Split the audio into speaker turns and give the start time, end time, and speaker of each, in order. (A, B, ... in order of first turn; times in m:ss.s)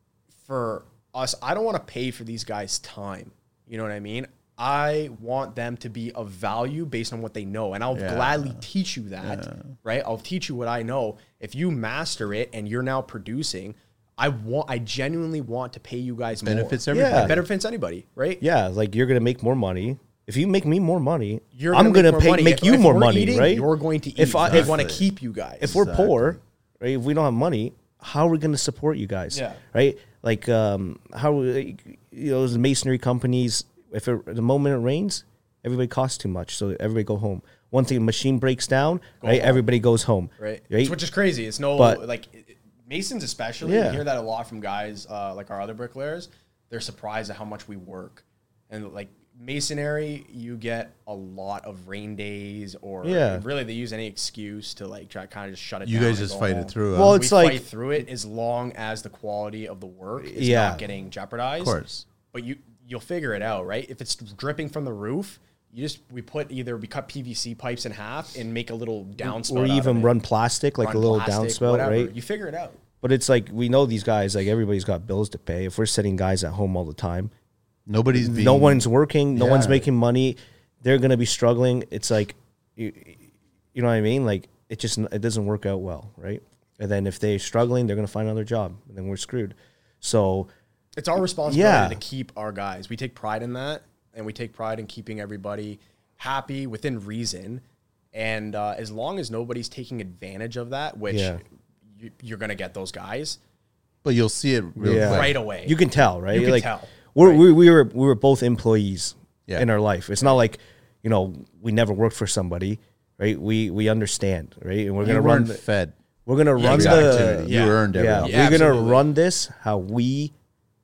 0:00.4-0:18.4 A
0:07.9-0:08.6 B
0:09.2-0:09.8 B
0:16.4-0:17.4 B
0:16.9-0:17.4 C
0:18.4-0:24.8 C
0:21.5-0:25.7 A
0:24.4-0:25.1 B
0:25.6-0:26.4 B
0:25.6-0:41.0 C
0:29.3-0:29.6 A
0:39.2-0:39.6 A
0:40.4-1:01.8 A
0:41.8-0:42.0 C
0:43.6-0:44.0 C
0:53.0-0:53.4 C
0:55.8-0:57.2 B
0:56.9-0:57.6 C
1:00.2-1:00.8 C
1:01.6-1:02.0 B
1:02.3-1:10.1 A
1:09.2-1:12.1 C
1:10.8-1:12.8 A
1:13.0-1:17.3 C
1:17.9-1:19.9 B
1:18.1-1:23.2 C
1:23.7-1:30.5 C
1:31.0-1:37.6 A
1:31.5-1:32.0 C
1:38.1-1:41.4 A
1:41.1-1:41.4 C
1:41.9-1:43.4 A
1:44.0-1:45.4 B
1:44.8-1:55.6 C
1:44.8-1:45.8 A
1:46.3-1:47.5 A
1:55.0-1:56.0 B
1:56.2-2:00.3 C
1:56.6-1:59.0 A
1:56.6-1:58.6 B